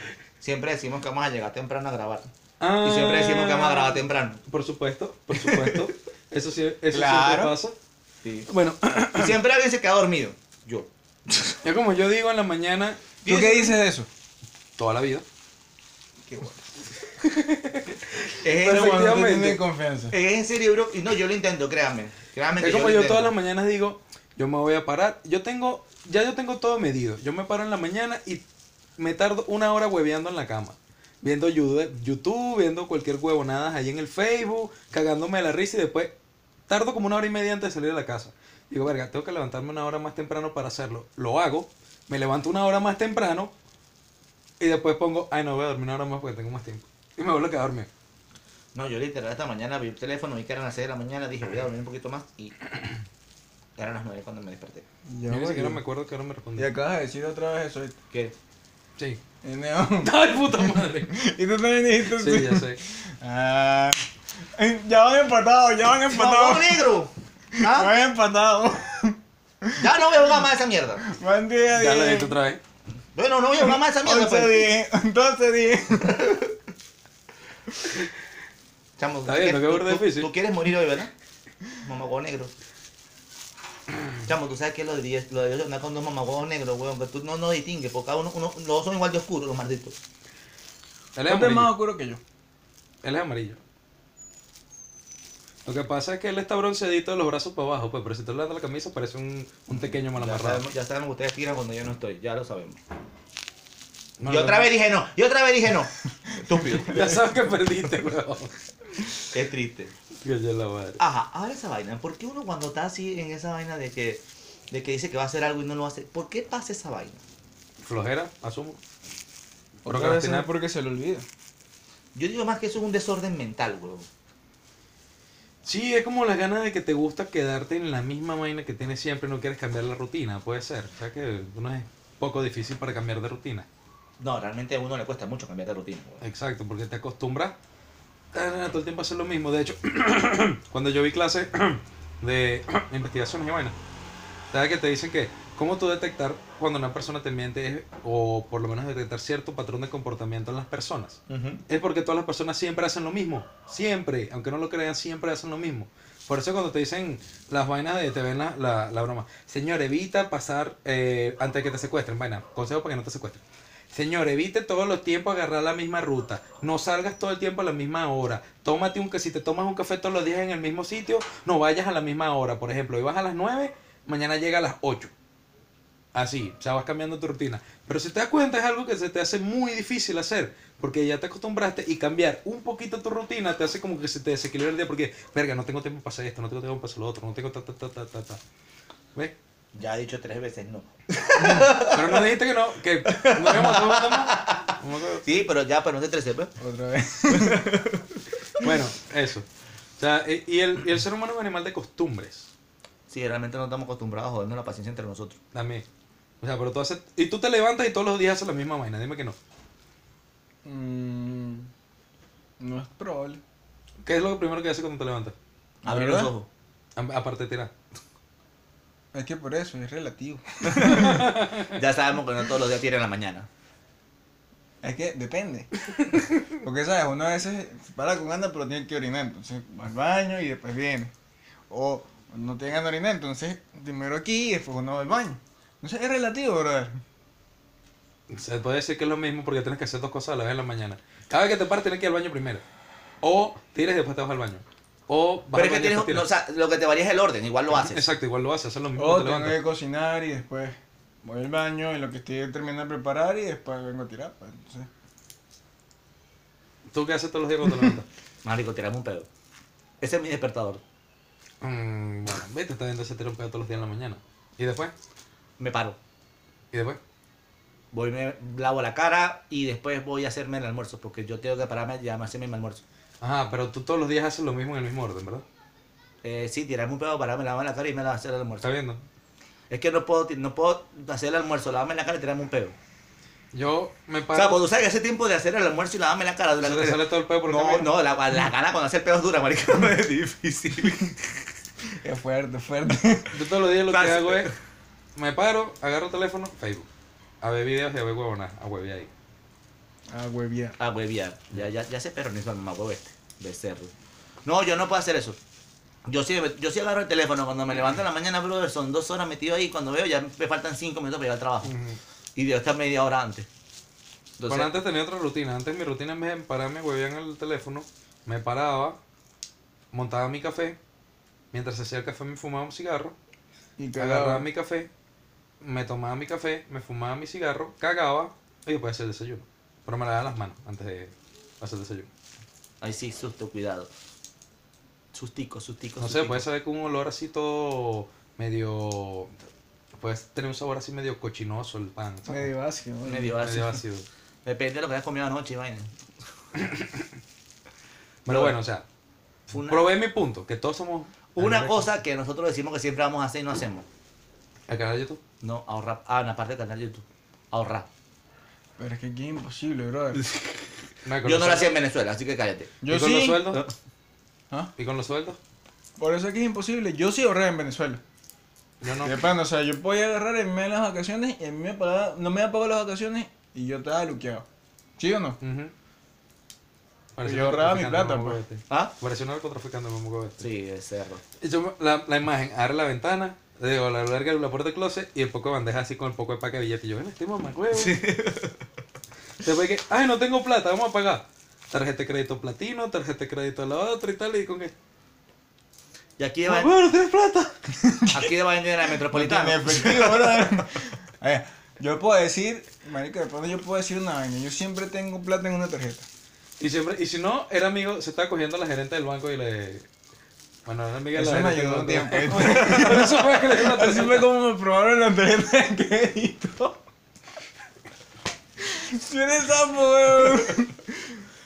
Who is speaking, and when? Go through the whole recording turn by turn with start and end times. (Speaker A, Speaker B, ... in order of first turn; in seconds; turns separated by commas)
Speaker A: 0.4-2.3, Speaker B: 2.6-7.7, Speaker A: 2.8-4.4, Speaker C: 6.9-7.5, Speaker A: 8.2-8.5, Speaker B: 8.5-9.3, Speaker A: 9.1-10.9, Speaker B: 11.6-13.0, Speaker A: 13.2-13.8, Speaker C: 13.2-14.1, Speaker B: 14.8-15.2, Speaker C: 16.2-16.7, Speaker B: 17.2-19.6, Speaker A: 18.4-19.2, Speaker C: 18.6-20.1, Speaker A: 20.1-23.3, Speaker B: 22.6-28.4, Speaker B: 29.0-36.1, Speaker B: 36.7-43.5, Speaker B: 44.6-47.9, Speaker A: 48.7-52.5, Speaker A: 53.8-54.8, Speaker C: 55.1-55.8, Speaker B: 55.3-56.7, Speaker C: 56.6-58.0, Speaker C: 59.4-64.0, Speaker B: 60.0-61.1, Speaker B: 62.1-62.8, Speaker C: 64.5-66.9, Speaker A: 66.1-67.9, Speaker C: 67.5-70.0, Speaker A: 69.8-71.1, Speaker C: 71.0-72.3, Speaker B: 71.7-72.6, Speaker A: 73.1-74.7, Speaker C: 73.6-76.3, Speaker A: 76.1-76.5, Speaker A: 79.0-81.1, Speaker B: 79.2-80.3, Speaker A: 81.8-82.5, Speaker A: 84.2-90.0, Speaker B: 91.1-91.7, Speaker C: 91.3-92.2, Speaker B: 93.0-93.6, Speaker B: 95.7-100.6, Speaker A: 99.8-102.8, Speaker B: 104.2-104.7, Speaker A: 104.3-107.2, Speaker B: 106.8-108.5, Speaker A: 109.3-109.9, Speaker B: 110.2-111.0, Speaker A: 111.0-117.2, Speaker B: 117.8-118.8, Speaker C: 119.8-121.2, Speaker B: 119.9-120.5, Speaker A: 122.1-124.1, Speaker B: 125.6-133.7, Speaker A: 134.2-136.2, Speaker B: 136.2-137.5, Speaker B: 138.3-143.7, Speaker B: 144.5-175.1, Speaker A: 151.3-151.6, Speaker B: 176.1-188.4, Speaker A: 189.7-192.3, Speaker C: 191.4-191.7, Speaker B: 191.8-195.2, Speaker A: 193.1-196.5, Speaker C: 196.6-197.7, Speaker A: 197.3-198.2, Speaker B: 198.6-199.5, Speaker B: 200.0-202.5, Speaker A: 203.1-205.4, Speaker B: 205.5-205.8, Speaker B: 206.4-209.3, Speaker C: 210.6-211.7, Speaker C: 212.6-213.4, Speaker B: 214.0-215.3, Speaker C: 215.8-216.3, Speaker A: 215.8-216.5, Speaker B: 216.9-217.7, Speaker C: 219.1-221.3, Speaker A: 220.7-223.5, Speaker B: 220.8-221.8, Speaker C: 224.8-225.7, Speaker C: 226.5-231.1, Speaker C: 231.7-237.0, Speaker B: 238.3-242.6, Speaker B: 243.2-246.3, Speaker A: 245.5-248.1, Speaker B: 247.7-249.6, Speaker C: 249.0-254.9, Speaker B: 256.9-258.1, Speaker A: 258.4-259.3, Speaker A: 260.0-260.8, Speaker B: 261.6-264.9, Speaker A: 265.6-266.0, Speaker B: 266.7-267.0, Speaker A: 267.9-272.8, Speaker B: 273.2-275.4, Speaker A: 276.2-278.7, Speaker B: 278.6-279.0, Speaker A: 279.7-282.7, Speaker B: 283.5-284.6, Speaker A: 284.3-291.4, Speaker B: 286.6-287.9, Speaker C: 292.0-293.3, Speaker B: 293.3-294.5, Speaker A: 293.9-294.5, Speaker B: 295.1-296.9, Speaker B: 297.4-299.1, Speaker C: 300.1-300.8, Speaker A: 300.8-303.9, Speaker A: 304.4-305.4, Speaker A: 306.1-311.7, Speaker B: 311.6-312.0, Speaker A: 312.4-313.5, Speaker A: 314.4-314.7, Speaker B: 314.5-319.0, Speaker B: 319.9-320.8, Speaker B: 321.5-323.1, Speaker C: 323.8-324.5, Speaker B: 324.0-324.9, Speaker B: 325.6-332.1, Speaker A: 332.8-333.9, Speaker A: 335.1-336.4, Speaker B: 336.0-339.3, Speaker B: 340.0-342.5, Speaker C: 342.2-343.5, Speaker A: 343.0-343.8, Speaker B: 343.4-344.1, Speaker A: 344.4-345.9, Speaker B: 346.5-347.1, Speaker B: 348.2-348.8, Speaker A: 348.3-348.6, Speaker A: 349.5-349.9, Speaker B: 349.6-351.9, Speaker A: 351.3-353.8, Speaker B: 354.7-355.2, Speaker A: 355.4-357.9, Speaker C: 358.8-360.2, Speaker A: 360.2-360.5, Speaker B: 361.0-361.7, Speaker A: 361.2-362.8, Speaker C: 362.8-363.5, Speaker B: 362.9-363.6, Speaker B: 364.8-365.4, Speaker C: 366.0-368.0, Speaker B: 368.8-369.1, Speaker C: 369.0-374.4, Speaker C: 375.0-375.4, Speaker B: 375.4-375.7, Speaker B: 377.1-380.4, Speaker C: 377.2-378.4, Speaker A: 380.4-381.2, Speaker B: 381.4-388.0, Speaker A: 387.7-388.6, Speaker B: 389.4-394.7, Speaker A: 396.2-396.7, Speaker B: 396.4-397.5, Speaker C: 397.8-398.3, Speaker A: 398.1-400.7, Speaker C: 399.0-406.1, Speaker B: 406.6-409.9, Speaker B: 410.6-414.3, Speaker C: 411.1-416.7, Speaker C: 418.6-421.2